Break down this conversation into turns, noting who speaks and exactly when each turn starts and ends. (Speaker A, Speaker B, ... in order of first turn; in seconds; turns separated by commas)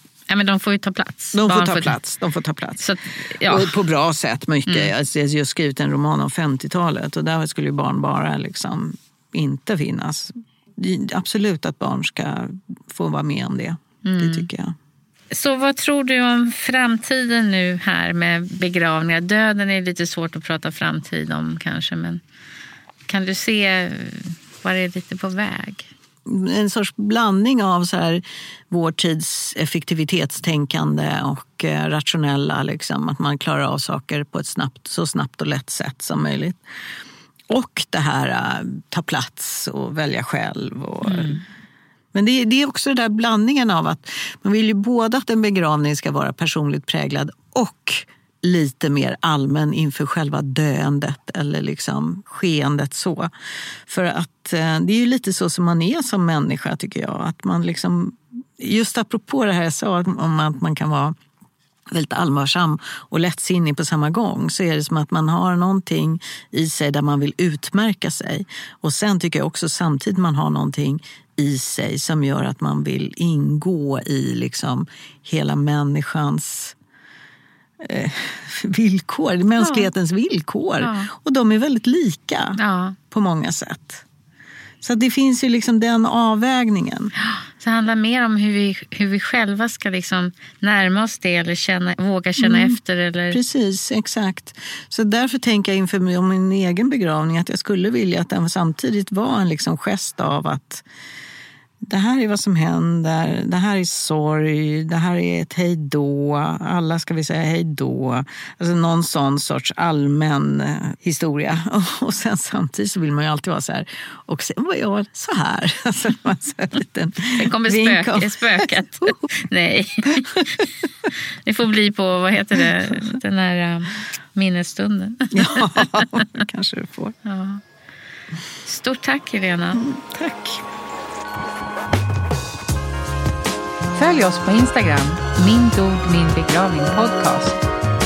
Speaker A: 0.3-2.0, Speaker B: 1.3-2.8, Speaker A: 2.8-3.8, Speaker B: 3.4-14.7, Speaker A: 4.7-4.9, Speaker A: 14.0-14.5, Speaker A: 15.3-22.2, Speaker A: 23.1-25.9, Speaker B: 26.2-36.6, Speaker B: 37.5-41.4, Speaker A: 41.0-41.4, Speaker B: 42.1-53.3, Speaker B: 53.9-61.1, Speaker B: 61.9-76.8, Speaker B: 77.8-82.6, Speaker A: 79.6-79.9, Speaker A: 80.8-81.1, Speaker A: 82.6-83.0, Speaker B: 83.1-84.0, Speaker B: 84.8-87.1, Speaker A: 87.2-93.4, Speaker B: 92.4-92.8, Speaker B: 93.3-100.8, Speaker B: 101.8-119.2, Speaker A: 117.3-126.4, Speaker B: 120.1-120.7, Speaker B: 125.3-127.2, Speaker A: 127.2-127.6, Speaker A: 128.6-129.8, Speaker B: 129.8-130.6, Speaker A: 133.9-137.6